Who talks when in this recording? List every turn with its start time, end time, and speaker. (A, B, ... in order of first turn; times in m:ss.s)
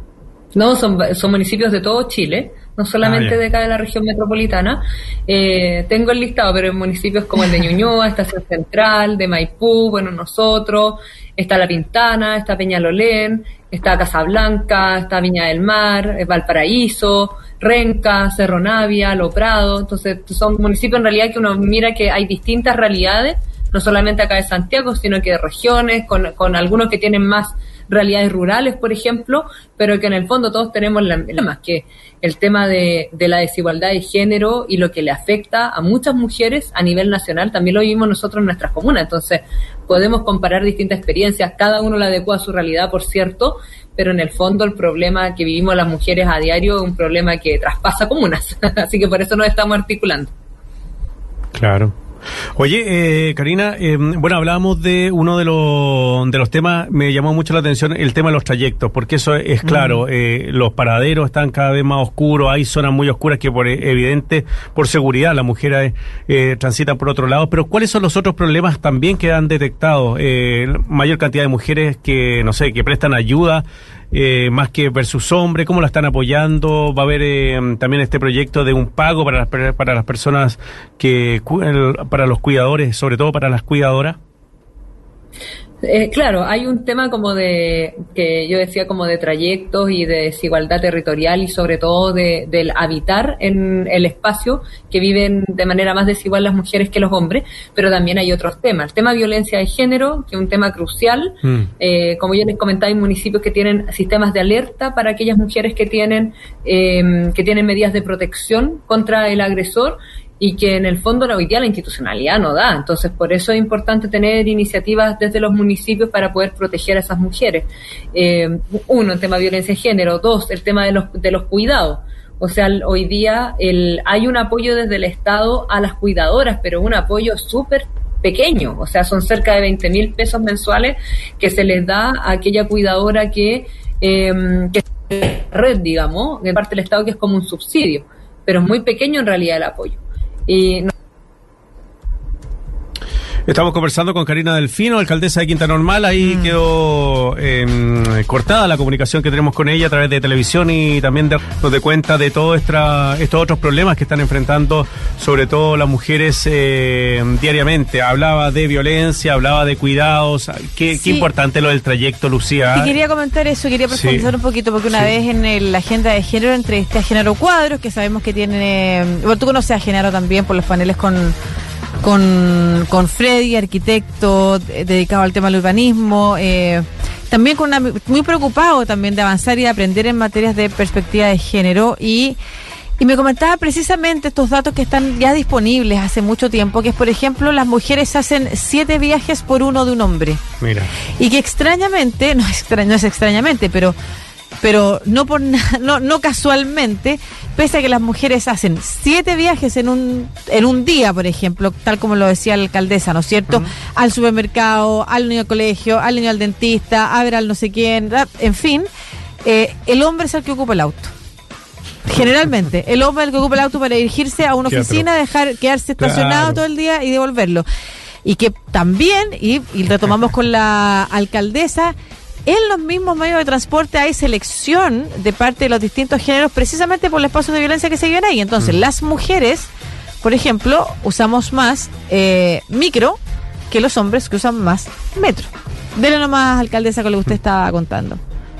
0:00.5-0:50.3 A
0:03.0-0:03.4 B
0:51.5-0:51.9 B
0:52.5-1:24.2 B
0:59.6-1:00.0 C
1:25.8-2:20.9 A
2:23.5-2:42.9 B
2:40.9-2:41.3 C
2:42.7-2:51.3 C
2:43.9-2:44.3 B
2:52.0-3:02.4 C
3:03.0-3:10.4 C
3:10.6-3:10.9 B
3:11.2-3:13.9 C
3:14.6-3:28.9 C
3:29.4-3:31.1 C
3:32.0-3:37.6 C
3:34.7-3:35.0 B
3:36.0-3:36.6 B
3:38.2-3:41.9 C
3:42.4-3:49.7 C
3:50.2-3:53.2 C
3:53.7-3:58.2 C